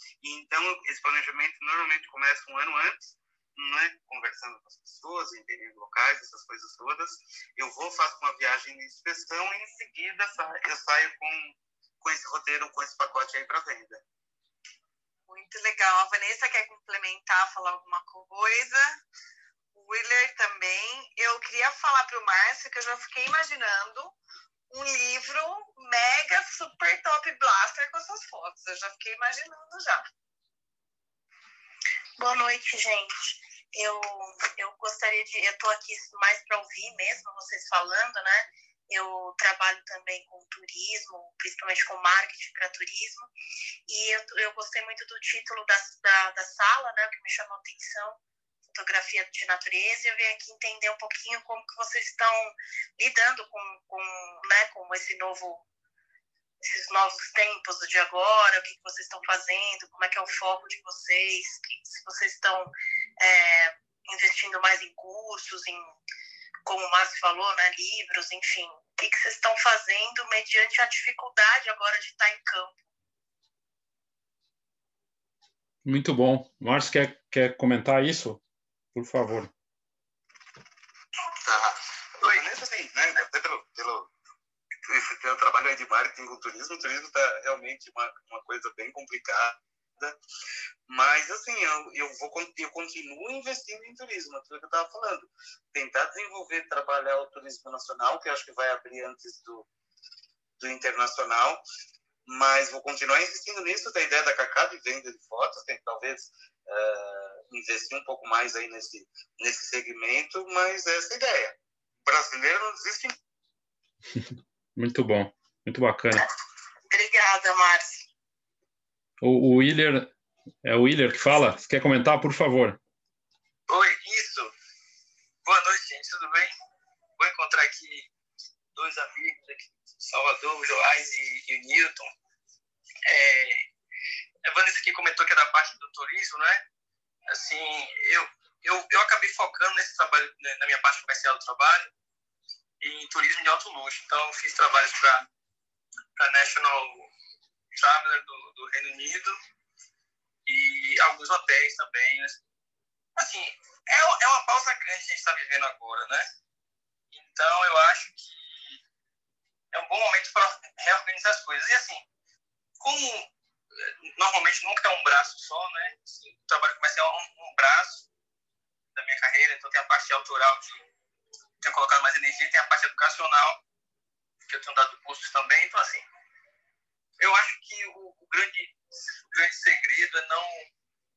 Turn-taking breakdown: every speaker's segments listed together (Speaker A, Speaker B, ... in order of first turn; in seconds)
Speaker A: 0.2-14.0, 81.4-84.1, 84.8-90.2, 90.9-99.7, 100.6-101.6, 102.3-113.2
Speaker B: 15.3-19.0, 19.8-24.2, 24.7-30.0, 116.9-117.8
Speaker C: 32.2-43.3, 43.9-48.2, 48.7-55.6, 56.6-65.9, 66.7-72.8
Speaker D: 75.8-78.4, 78.9-79.5, 114.2-116.2, 119.2-120.1, 120.6-122.8
Speaker E: 123.7-124.5, 125.4-126.5, 127.2-128.1, 128.8-132.1, 133.1-133.7, 134.4-136.6, 137.3-141.9, 142.8-145.2, 146.2-147.1, 147.7-149.4, 150.5-152.4, 153.2-156.2, 157.1-158.8, 159.7-162.0, 162.8-168.1, 169.0-170.8, 171.6-173.6, 174.5-176.1, 177.2-180.7